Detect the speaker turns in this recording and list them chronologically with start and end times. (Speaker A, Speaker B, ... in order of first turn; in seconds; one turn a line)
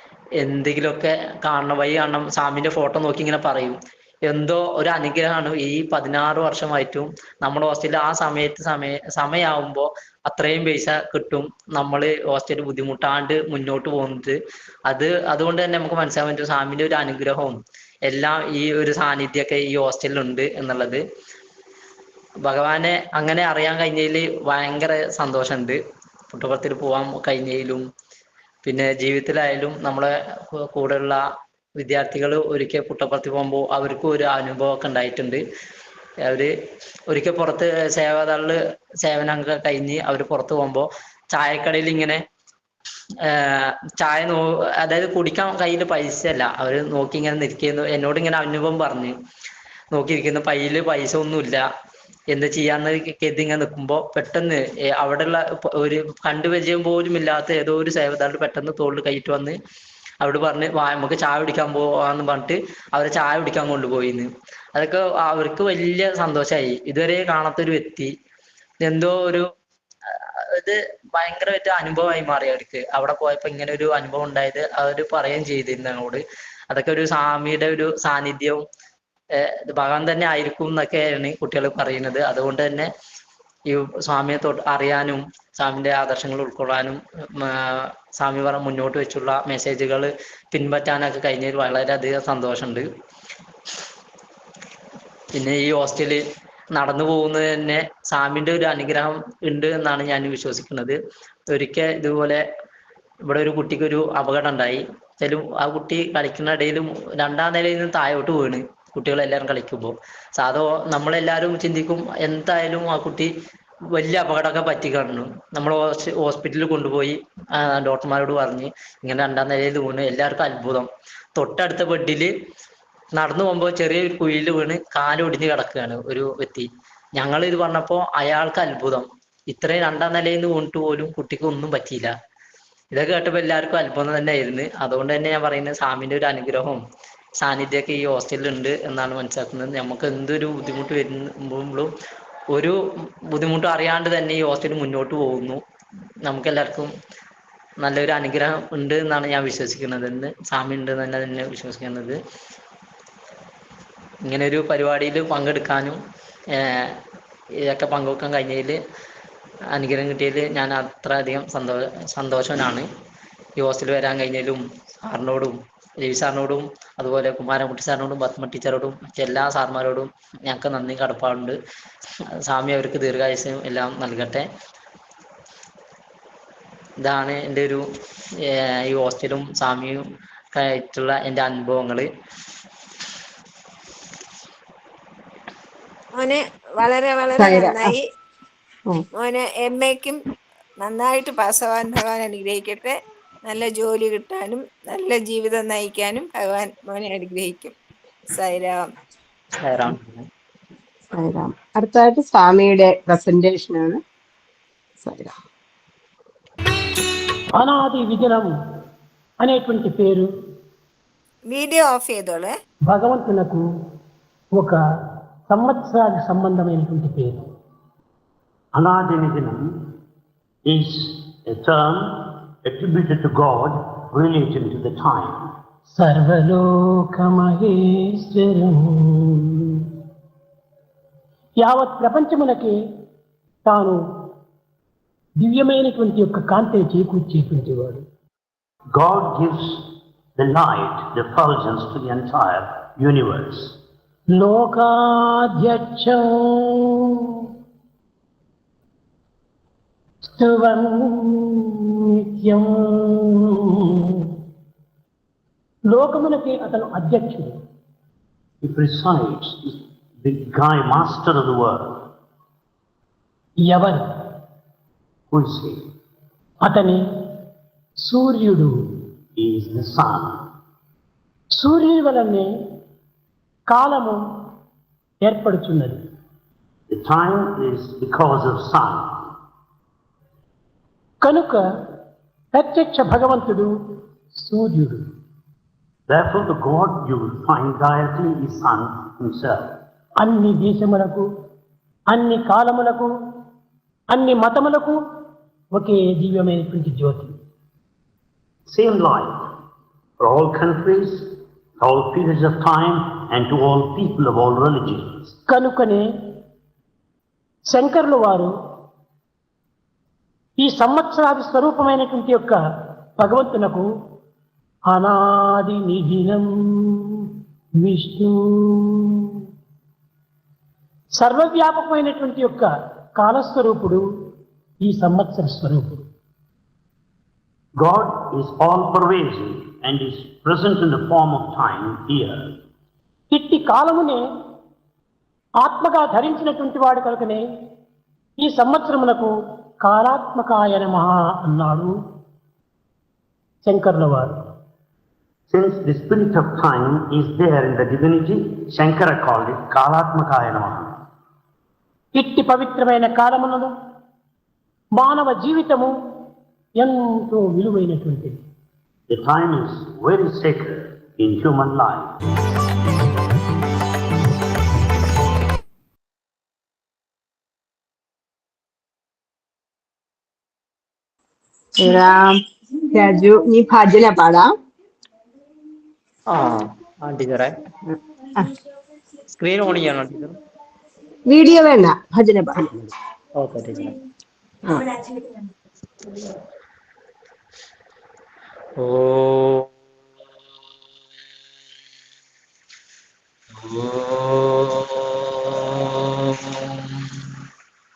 Speaker A: 0.4-21.0
Speaker A: 22.4-25.8
Speaker A: 26.3-27.8
Speaker A: 28.6-31.2
Speaker A: 31.8-35.4
Speaker A: 36.2-36.5
Speaker A: 37.1-42.2
Speaker A: 43.2-49.1
Speaker A: 49.9-51.6
Speaker A: 52.3-59.6
Speaker A: 60.2-68.1
Speaker A: 68.8-69.5
Speaker A: 70.1-78.6
Speaker A: 79.3-82.9
Speaker A: 83.7-92.9
Speaker A: 95.3-96.2
Speaker A: 96.7-101.0
Speaker A: 101.5-102.4
Speaker A: 103.2-113.3
Speaker A: 113.9-122.3
Speaker A: 123.2-132.1
Speaker A: 132.9-136.8
Speaker A: 137.4-141.9
Speaker A: 142.5-145.6
Speaker A: 146.2-146.9
Speaker A: 147.8-152.2
Speaker A: 154.2-156.0
Speaker A: 156.5-157.0
Speaker A: 157.7-158.8
Speaker A: 159.7-162.9
Speaker A: 163.6-171.6
Speaker A: 172.4-174.5
Speaker A: 177.0-177.8
Speaker A: 178.4-182.1
Speaker B: 186.2-188.0
Speaker C: 187.4-187.9
Speaker B: 189.2-190.2
Speaker B: 190.8-197.7
Speaker B: 198.3-198.8
Speaker A: 199.6-200.2
Speaker C: 201.2-204.0
Speaker C: 205.0-205.3
Speaker D: 207.6-208.5
Speaker D: 209.4-210.2
Speaker B: 211.5-212.5
Speaker D: 212.9-213.6
Speaker D: 214.5-214.8
Speaker D: 215.5-217.5
Speaker E: 218.7-220.0
Speaker E: 220.6-225.6
Speaker D: 225.9-230.0
Speaker D: 231.6-232.7
Speaker D: 233.6-234.3
Speaker D: 235.4-238.0
Speaker E: 238.9-243.8
Speaker D: 244.3-247.5
Speaker D: 250.2-254.4
Speaker D: 255.9-257.6
Speaker E: 258.6-262.1
Speaker D: 263.6-264.4
Speaker E: 265.3-265.9
Speaker D: 266.6-267.4
Speaker D: 268.0-269.0
Speaker E: 269.4-270.5
Speaker D: 271.5-272.5
Speaker D: 273.7-274.5
Speaker D: 275.2-276.0
Speaker E: 276.9-279.4
Speaker D: 281.2-282.0
Speaker D: 282.5-285.1
Speaker E: 286.1-289.8
Speaker D: 290.2-291.2
Speaker D: 292.1-293.1
Speaker D: 294.1-295.0
Speaker D: 295.7-297.3
Speaker E: 298.7-299.5
Speaker E: 300.2-305.4
Speaker D: 305.5-306.4
Speaker D: 307.7-308.5
Speaker D: 310.6-312.6
Speaker D: 313.2-313.8
Speaker D: 314.9-319.4
Speaker D: 321.2-324.0
Speaker D: 324.8-326.1
Speaker E: 327.8-332.6
Speaker D: 333.3-334.2
Speaker D: 335.6-337.4
Speaker D: 338.4-341.9
Speaker D: 343.6-344.3
Speaker E: 345.5-351.0
Speaker D: 352.1-353.7
Speaker D: 355.0-356.2
Speaker D: 356.8-358.4
Speaker E: 359.1-362.2
Speaker C: 371.8-372.4
Speaker C: 372.9-374.5
Speaker A: 376.3-377.6
Speaker A: 379.4-380.4
Speaker C: 381.2-382.8
Speaker A: 383.4-383.9
Speaker C: 384.7-385.2
Speaker A: 388.8-389.7
Speaker A: 393.5-397.2